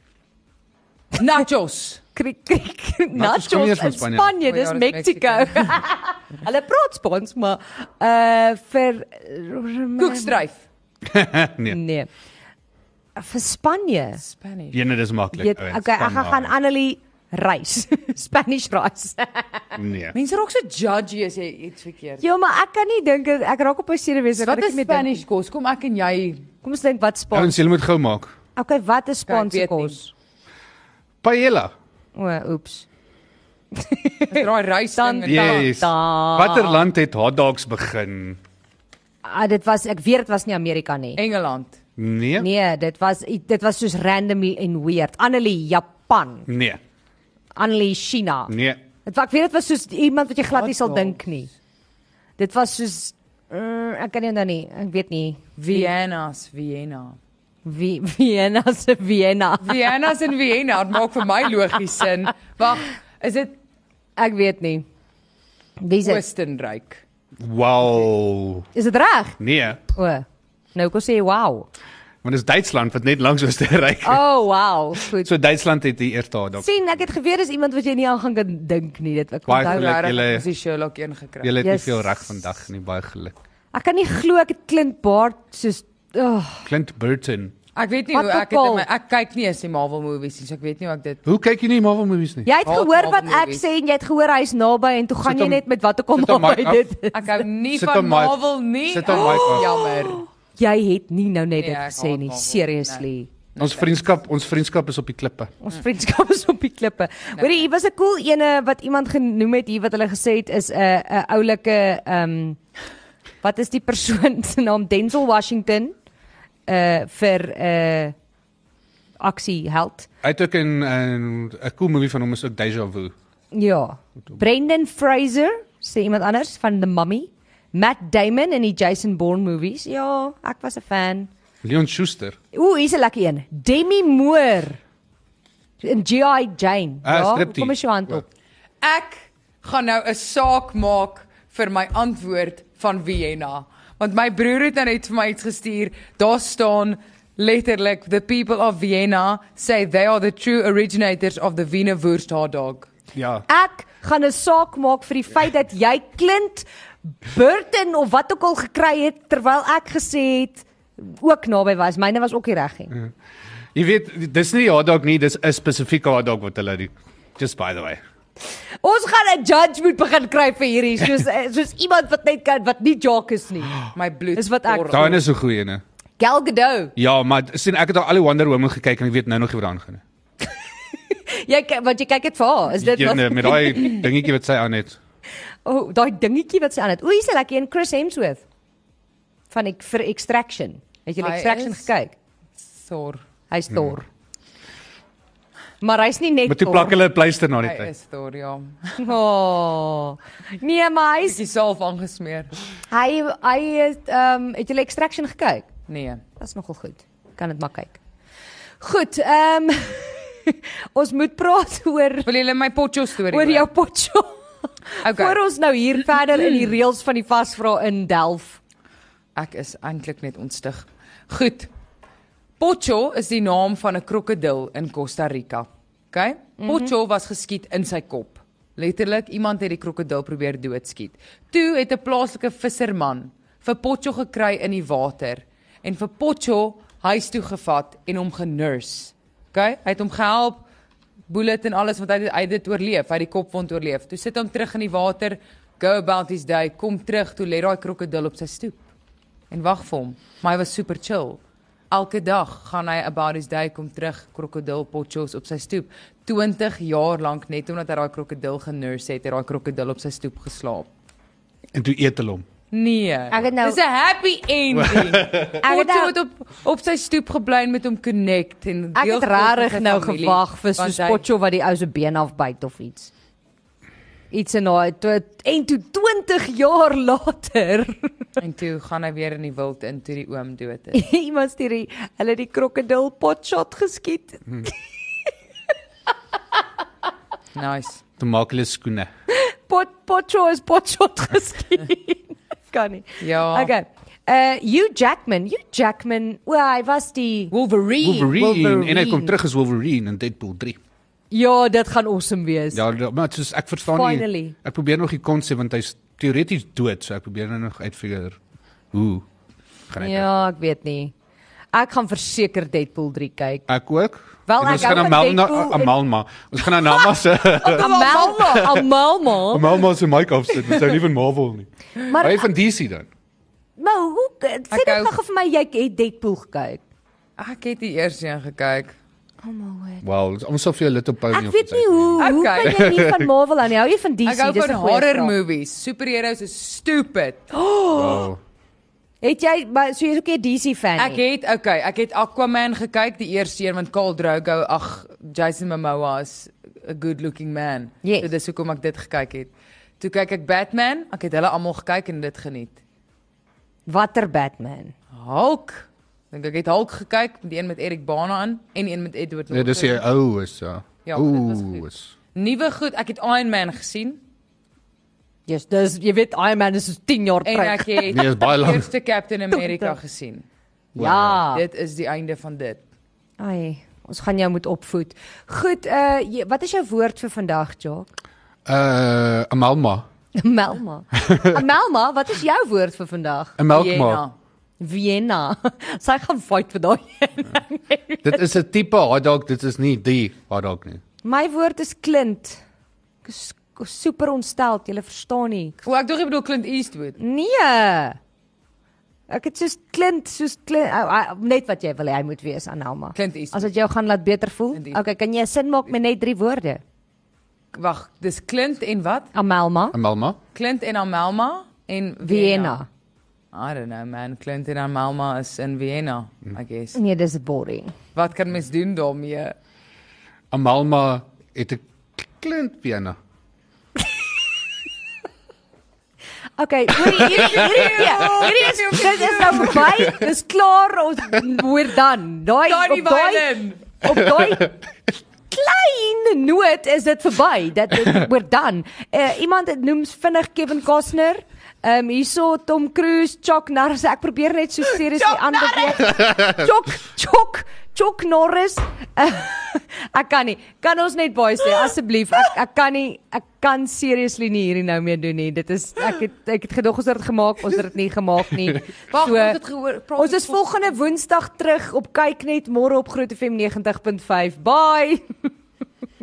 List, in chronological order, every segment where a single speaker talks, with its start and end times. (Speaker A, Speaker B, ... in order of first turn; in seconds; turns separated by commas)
Speaker A: 1.1-2.0, Speaker B: 2.1-10.4, Speaker C: 3.1-4.3, Speaker A: 4.5-5.8, Speaker A: 10.0-10.6, Speaker C: 11.0-11.8, Speaker B: 11.7-12.1, Speaker B: 13.2-14.2, Speaker A: 14.2-14.8, Speaker C: 14.7-16.5, Speaker B: 15.3-19.6, Speaker C: 19.8-20.1, Speaker A: 20.1-22.2, Speaker B: 22.2-25.1, Speaker A: 24.4-26.4, Speaker B: 26.6-27.6, Speaker C: 27.3-28.3, Speaker B: 28.6-30.1, Speaker A: 29.3-30.0, Speaker C: 31.2-31.7, Speaker B: 32.1-32.9, Speaker B: 33.8-34.5, Speaker A: 34.3-35.7, Speaker B: 35.0-36.9, Speaker C: 35.2-38.4, Speaker B: 39.2-41.2, Speaker A: 41.1-41.8, Speaker C: 42.0-42.5, Speaker B: 42.4-46.5, Speaker C: 46.5-46.8, Speaker B: 47.5-51.5, Speaker C: 48.5-48.8, Speaker A: 50.5-51.2, Speaker B: 52.4-55.9, Speaker A: 55.7-57.2, Speaker B: 57.6-59.8, Speaker A: 59.6-63.5, Speaker B: 64.2-64.8, Speaker B: 65.8-66.2, Speaker A: 66.0-67.0, Speaker C: 67.4-68.7, Speaker B: 68.7-69.4, Speaker C: 69.4-69.8, Speaker B: 69.9-71.7, Speaker C: 72.2-74.2, Speaker B: 74.0-75.3, Speaker C: 75.0-76.7, Speaker B: 76.6-79.9, Speaker C: 79.5-80.5, Speaker A: 79.6-81.6, Speaker C: 81.4-83.4, Speaker B: 81.6-82.4, Speaker B: 83.7-86.7, Speaker C: 86.6-87.5, Speaker A: 87.7-91.2, Speaker B: 88.1-88.8, Speaker C: 91.2-92.5, Speaker B: 92.5-97.4, Speaker A: 92.6-93.6, Speaker C: 95.2-96.8, Speaker A: 97.1-100.2, Speaker C: 97.7-99.7, Speaker B: 99.1-103.3, Speaker A: 101.6-104.0, Speaker C: 103.6-105.5, Speaker B: 105.6-112.6, Speaker A: 107.3-107.6, Speaker B: 113.4-115.9, Speaker B: 116.7-118.1, Speaker B: 119.2-120.1, Speaker C: 120.2-123.1, Speaker B: 123.5-131.3, Speaker C: 131.6-132.4, Speaker B: 132.5-134.8, Speaker B: 135.8-138.3, Speaker C: 137.0-138.2, Speaker A: 138.8-152.9, Speaker C: 153.1-153.4, Speaker B: 153.5-162.9, Speaker C: 163.7-168.0, Speaker B: 168.8-173.8, Speaker A: 173.9-175.2, Speaker B: 174.3-175.2, Speaker C: 174.9-175.8, Speaker B: 176.2-176.9, Speaker C: 176.9-180.0, Speaker B: 181.1-184.1, Speaker C: 182.8-185.0, Speaker B: 185.6-188.4, Speaker B: 189.5-192.1, Speaker A: 191.2-191.9, Speaker A: 192.8-193.2, Speaker B: 193.5-194.1, Speaker B: 195.8-197.0, Speaker C: 196.4-197.9, Speaker A: 197.6-199.1, Speaker B: 199.0-201.4, Speaker A: 201.2-202.5, Speaker B: 202.9-205.7, Speaker A: 205.9-206.2, Speaker B: 206.4-208.0, Speaker B: 208.8-212.3, Speaker A: 212.2-213.7, Speaker B: 213.3-214.4, Speaker B: 215.0-218.6, Speaker A: 215.0-215.4, Speaker A: 219.3-221.7, Speaker A: 222.6-240.6, Speaker B: 226.6-226.9, Speaker A: 241.3-248.8, Speaker A: 249.5-251.4, Speaker A: 251.9-260.9, Speaker C: 261.7-262.5, Speaker A: 262.7-271.2, Speaker B: 263.3-263.8, Speaker C: 265.0-265.4, Speaker B: 265.6-266.1, Speaker B: 268.9-273.1, Speaker B: 274.3-278.1, Speaker A: 278.4-281.0, Speaker B: 280.9-284.8, Speaker A: 287.5-288.0, Speaker C: 288.2-289.1, Speaker B: 289.3-297.5, Speaker A: 293.2-293.7, Speaker A: 297.5-298.4, Speaker C: 298.0-300.8, Speaker B: 298.3-299.3, Speaker B: 301.3-302.8, Speaker C: 302.7-308.4, Speaker B: 303.9-304.5, Speaker C: 308.9-309.2, Speaker C: 309.9-310.3, Speaker B: 310.0-311.1, Speaker B: 311.7-313.7, Speaker C: 313.7-318.1, Speaker B: 314.5-315.9, Speaker B: 316.6-319.8, Speaker A: 317.6-318.8, Speaker C: 319.5-323.1, Speaker B: 322.0-322.4, Speaker B: 323.8-326.8, Speaker A: 324.7-325.1, Speaker A: 327.4-328.9, Speaker B: 329.4-330.0, Speaker C: 330.0-333.3, Speaker B: 331.3-335.3, Speaker A: 332.2-333.0, Speaker A: 334.2-337.4, Speaker B: 337.5-338.3, Speaker C: 337.9-338.4, Speaker B: 339.2-341.2, Speaker A: 341.0-352.8, Speaker B: 348.0-348.3, Speaker B: 353.9-354.9, Speaker A: 355.1-360.0, Speaker C: 359.5-362.1, Speaker A: 361.1-364.2, Speaker B: 365.5-368.2, Speaker A: 367.4-370.4, Speaker C: 368.1-368.9, Speaker B: 369.5-369.9, Speaker C: 370.9-371.4, Speaker B: 370.9-371.6, Speaker A: 371.1-372.8, Speaker B: 373.4-378.1, Speaker C: 378.6-380.1, Speaker B: 380.3-383.6, Speaker C: 383.6-384.2, Speaker A: 383.7-384.3, Speaker B: 384.8-388.4, Speaker C: 388.2-391.0, Speaker B: 391.2-392.6, Speaker B: 393.2-395.8, Speaker A: 395.8-397.2, Speaker B: 397.2-398.2, Speaker B: 399.3-406.8, Speaker A: 403.1-403.7, Speaker A: 404.7-405.0, Speaker A: 407.7-409.3, Speaker B: 409.3-410.0, Speaker C: 409.9-410.4, Speaker A: 410.5-412.8, Speaker B: 412.2-412.9, Speaker A: 413.5-417.0, Speaker B: 416.9-417.9, Speaker A: 418.1-419.5, Speaker C: 420.5-423.2, Speaker B: 426.6-434.8, Speaker A: 427.0-430.1, Speaker A: 432.7-433.8, Speaker B: 435.5-459.6, Speaker A: 445.2-446.1, Speaker A: 459.1-460.9, Speaker B: 460.1-465.2